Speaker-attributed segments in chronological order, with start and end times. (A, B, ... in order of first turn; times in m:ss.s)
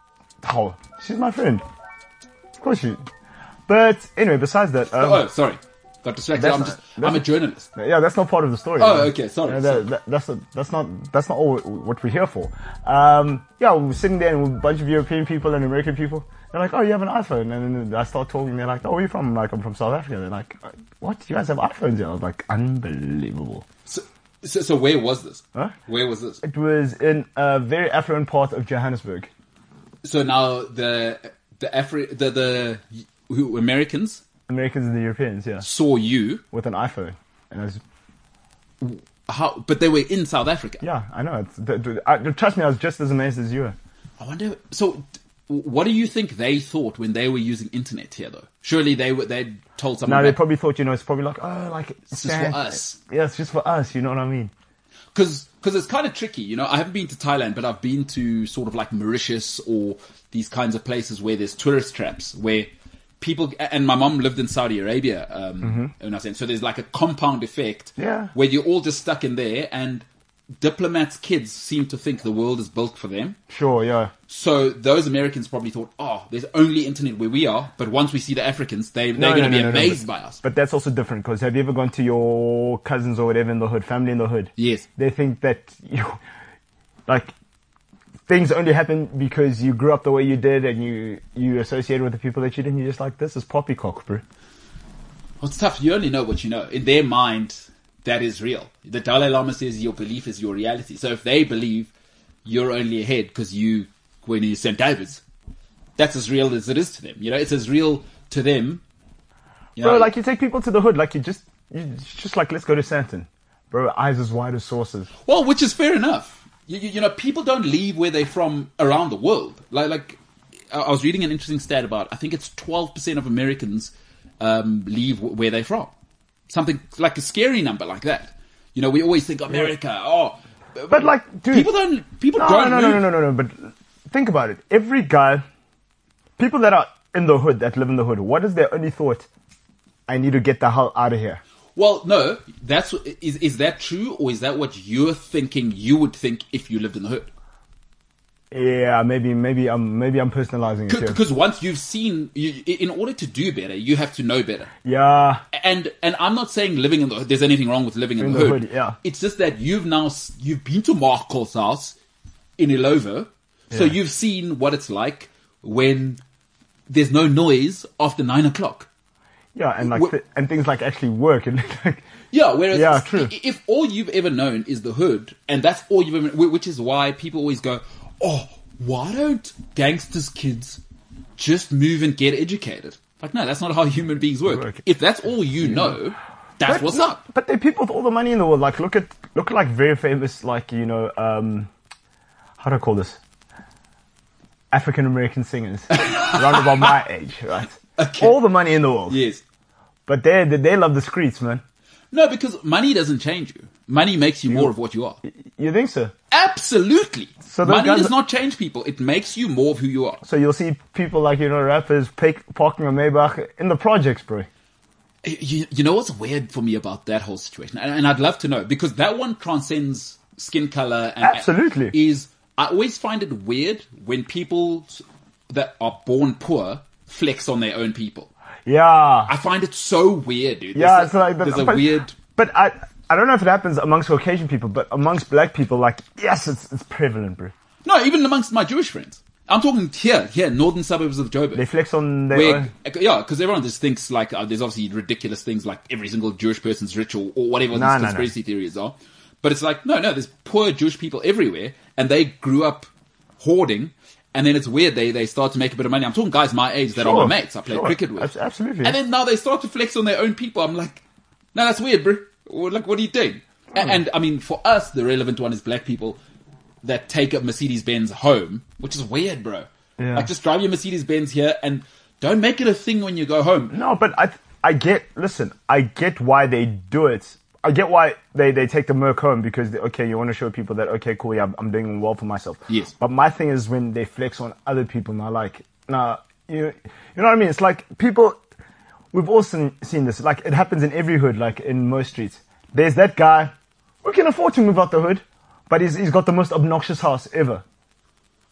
0:00.4-0:01.6 A
0:02.6-0:03.0 A
0:03.7-0:05.2 A
0:04.9-0:07.7 B
0:06.4-0:23.7 A
0:08.8-0:09.8 B
0:23.9-0:26.4 B
0:26.4-0:29.3 A
0:30.0-0:34.2 B
0:34.5-0:35.7 A
0:35.6-0:36.4 B
0:36.5-0:37.8 A
0:38.8-0:40.8 B
0:40.8-0:43.8 A
0:44.2-0:50.4 B
0:50.0-0:54.5 A
0:52.1-0:53.0 B
0:55.1-1:10.0 B
1:05.6-1:05.9 A
1:08.0-1:08.3 A
1:10.6-1:13.4 B
1:13.5-1:14.1 A
1:14.3-1:20.4 B
1:19.2-1:26.2 A
1:24.6-1:24.9 B
1:27.1-1:27.3 A
1:28.3-1:34.2 A
1:35.4-1:41.9 B
1:42.4-1:45.2 B
1:46.0-1:48.8 B
1:49.8-1:50.1 B
1:49.8-1:55.1 A
1:55.3-2:00.2 B
2:00.7-2:05.9 B
2:06.5-2:13.1 B
2:10.9-2:11.7 A
2:12.4-2:15.4 A
2:16.4-2:19.3 A
2:20.1-2:21.4 A
2:21.8-2:27.3 B
2:28.5-2:31.2 A
2:30.9-2:34.7 B
2:34.8-2:35.4 A
2:35.5-2:42.0 B
2:38.2-2:39.0 A
2:42.6-2:46.2 B
2:46.9-2:48.9 B
2:49.6-2:52.1 A
2:52.3-3:00.8 B
2:52.7-2:53.3 A
3:01.4-3:07.2 B
3:06.6-3:11.7 A
3:12.6-3:13.2 A
3:14.7-3:19.2 A
3:15.9-3:16.9 B
3:18.0-3:18.4 B
3:19.1-3:19.4 B
3:20.1-3:21.6 A
3:22.1-3:25.2 B
3:25.3-3:26.1 A
3:26.3-3:30.2 B
3:27.4-3:28.1 A
3:30.2-3:34.5 A
3:35.2-3:48.3 B
3:41.2-3:42.0 A
3:48.7-3:49.3 A
3:49.3-3:52.2 B
3:50.8-3:51.8 A
3:52.4-3:57.5 A
3:57.8-4:01.6 B
4:01.6-4:02.7 A
4:02.3-4:12.9 B
4:07.7-4:08.3 A
4:13.4-4:18.3 B
4:17.0-4:19.0 A
4:18.8-4:21.0 B
4:21.5-4:26.2 B
4:26.8-4:33.7 B
4:30.0-4:30.3 A
4:33.7-4:48.4 A
4:49.1-4:57.6 A